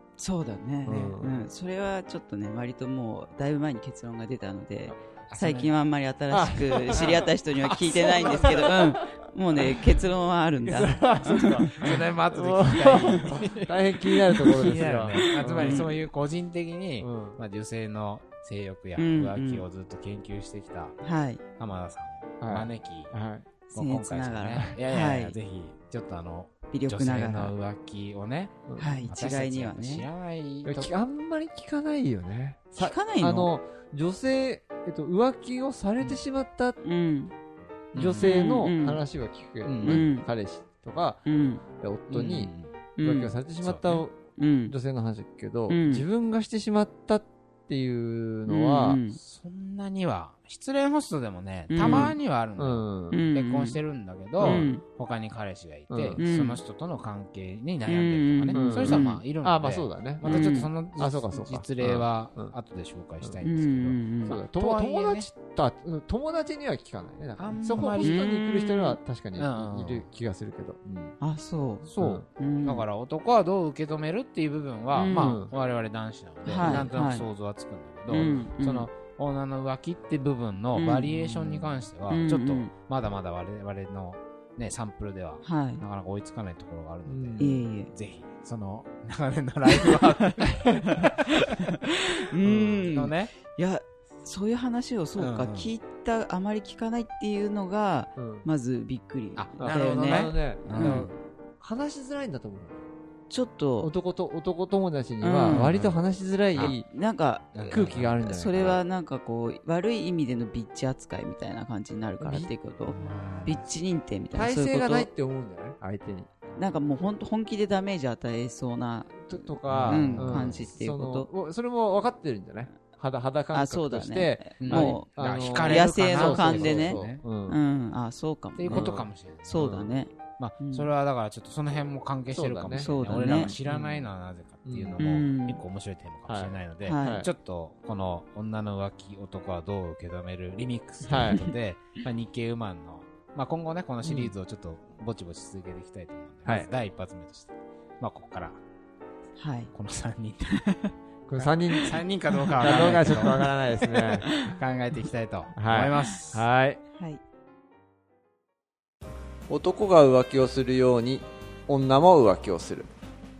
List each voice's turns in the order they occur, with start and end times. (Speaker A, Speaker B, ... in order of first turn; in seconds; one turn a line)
Speaker A: 0.2-11.7
Speaker B: 0.8-1.5
Speaker C: 5.3-5.7
Speaker B: 6.3-9.0
Speaker B: 9.6-9.8
Speaker B: 10.7-15.9
Speaker C: 11.6-21.0
Speaker A: 15.2-15.9
Speaker B: 17.0-17.4
Speaker A: 18.9-19.6
Speaker A: 21.0-21.4
Speaker C: 21.6-23.1
Speaker B: 22.4-23.5
Speaker A: 23.7-25.4
Speaker C: 23.7-30.9
Speaker A: 26.7-27.5
Speaker B: 28.7-29.0
Speaker A: 28.8-30.1
Speaker B: 30.6-36.8
Speaker A: 32.7-33.5
Speaker A: 36.8-37.3
Speaker C: 37.9-38.4
Speaker B: 37.9-41.2
Speaker A: 38.2-39.0
Speaker C: 39.6-40.1
Speaker A: 39.8-40.3
Speaker A: 41.2-41.6
Speaker B: 41.8-49.0
Speaker C: 42.1-42.8
Speaker A: 43.0-43.3
Speaker C: 43.6-44.0
Speaker A: 44.4-44.7
Speaker A: 45.7-46.0
Speaker A: 48.5-49.2
Speaker C: 49.1-65.3
Speaker A: 51.7-52.1
Speaker B: 51.8-53.2
Speaker A: 53.1-53.8
Speaker A: 54.4-54.8
Speaker B: 54.4-54.7
Speaker B: 55.9-56.2
Speaker A: 56.2-56.6
Speaker A: 57.9-59.2
Speaker B: 58.5-62.5
Speaker A: 60.2-60.7
Speaker A: 63.4-64.4
Speaker B: 64.2-71.2
Speaker C: 67.4-68.2
Speaker A: 68.0-69.0
Speaker C: 69.4-70.1
Speaker A: 71.2-72.8
Speaker C: 71.8-92.2
Speaker B: 72.0-72.2
Speaker A: 74.9-75.4
Speaker B: 75.1-75.5
Speaker A: 76.4-77.2
Speaker B: 76.6-76.9
Speaker A: 78.1-78.9
Speaker A: 80.7-81.5
Speaker B: 81.5-81.8
Speaker A: 82.1-82.7
Speaker A: 85.4-85.8
Speaker B: 87.0-87.6
Speaker A: 87.4-87.9
Speaker A: 92.3-101.1
Speaker B: 92.4-92.9
Speaker C: 92.8-93.3
Speaker C: 95.2-95.7
Speaker B: 98.2-98.5
Speaker C: 99.3-101.1
Speaker B: 99.6-102.8
Speaker A: 103.3-103.9
Speaker B: 103.8-106.9
Speaker A: 105.2-105.7
Speaker C: 105.5-106.0
Speaker A: 106.5-115.1
Speaker C: 107.5-108.7
Speaker B: 107.6-108.8
Speaker B: 112.2-113.6
Speaker C: 112.9-113.6
Speaker B: 114.3-116.3
Speaker A: 116.5-121.3
Speaker B: 119.2-127.6
Speaker C: 119.6-120.7
Speaker A: 123.5-130.9
Speaker C: 124.6-127.2
Speaker C: 128.5-129.7
Speaker B: 128.7-129.9
Speaker C: 130.4-148.6
Speaker B: 132.3-134.1
Speaker A: 132.7-133.5
Speaker B: 134.6-135.0
Speaker A: 135.0-135.6
Speaker B: 136.3-137.3
Speaker A: 136.8-137.2
Speaker B: 141.1-141.4
Speaker A: 141.2-141.5
Speaker B: 144.0-144.3
Speaker B: 146.4-146.7
Speaker A: 149.4-149.7
Speaker C: 149.7-150.6
Speaker A: 150.5-150.9
Speaker B: 151.3-152.0
Speaker C: 151.3-156.5
Speaker A: 151.7-152.0
Speaker B: 152.6-154.3
Speaker A: 152.6-154.5
Speaker B: 155.5-156.8
Speaker B: 159.5-162.9